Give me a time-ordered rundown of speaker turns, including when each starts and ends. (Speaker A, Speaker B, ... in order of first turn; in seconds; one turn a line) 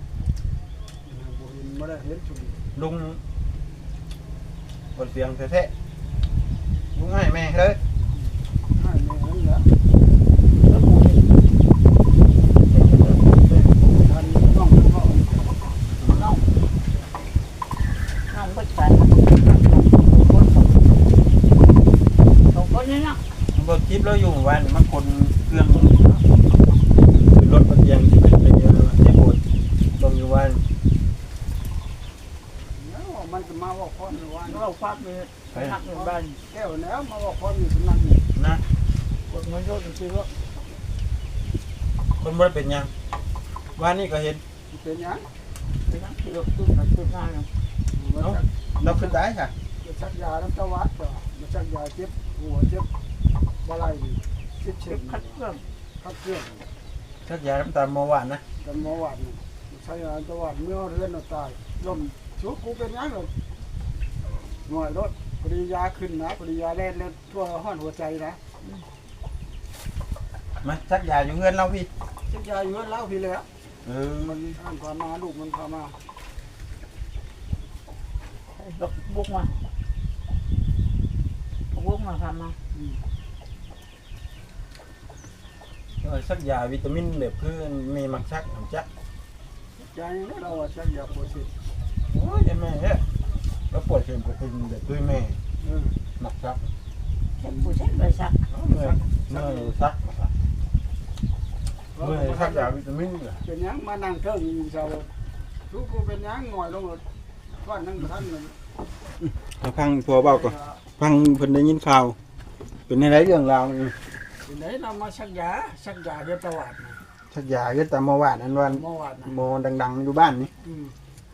Speaker A: 1.0-2.6
Speaker B: 2.7-3.2
Speaker B: 5.0-5.7
Speaker B: 6.9-7.8
Speaker A: 8.1-9.7
Speaker C: 10.6-11.3
Speaker C: 12.6-13.8
Speaker A: 13.8-15.6
Speaker C: 16.1-16.4
Speaker C: 18.3-20.8
Speaker C: 22.5-23.2
Speaker B: 23.5-26.2
Speaker B: 27.1-29.4
Speaker B: 30.0-30.6
Speaker A: 32.7-34.6
Speaker C: 34.5-36.4
Speaker B: 35.5-35.8
Speaker A: 35.8-38.2
Speaker B: 38.3-38.6
Speaker C: 39.3-40.3
Speaker B: 42.2-42.9
Speaker B: 43.8-44.4
Speaker A: 44.7-45.3
Speaker C: 45.9-47.5
Speaker A: 47.9-48.5
Speaker B: 48.2-49.5
Speaker A: 49.8-52.9
Speaker A: 53.6-55.4
Speaker C: 54.9-55.6
Speaker A: 56.0-56.7
Speaker B: 57.2-58.4
Speaker A: 58.6-63.3
Speaker A: 64.7-68.4
Speaker B: 70.6-71.9
Speaker A: 72.2-73.5
Speaker B: 73.8-74.4
Speaker A: 74.2-76.0
Speaker C: 78.5-79.6
Speaker C: 81.7-82.5
Speaker A: 82.7-83.0
Speaker B: 86.0-88.9
Speaker A: 89.8-91.5
Speaker B: 92.1-93.0
Speaker B: 93.7-95.4
Speaker A: 95.6-96.0
Speaker B: 96.2-96.6
Speaker C: 97.4-98.4
Speaker B: 98.5-100.3
Speaker A: 98.7-99.7
Speaker A: 101.9-102.7
Speaker B: 102.0-103.4
Speaker A: 103.4-105.1
Speaker A: 105.7-107.0
Speaker A: 107.6-108.5
Speaker B: 109.2-112.2
Speaker A: 110.1-110.8
Speaker B: 112.9-113.9
Speaker A: 114.4-117.0
Speaker B: 117.3-120.5
Speaker A: 118.7-119.3
Speaker A: 120.6-120.9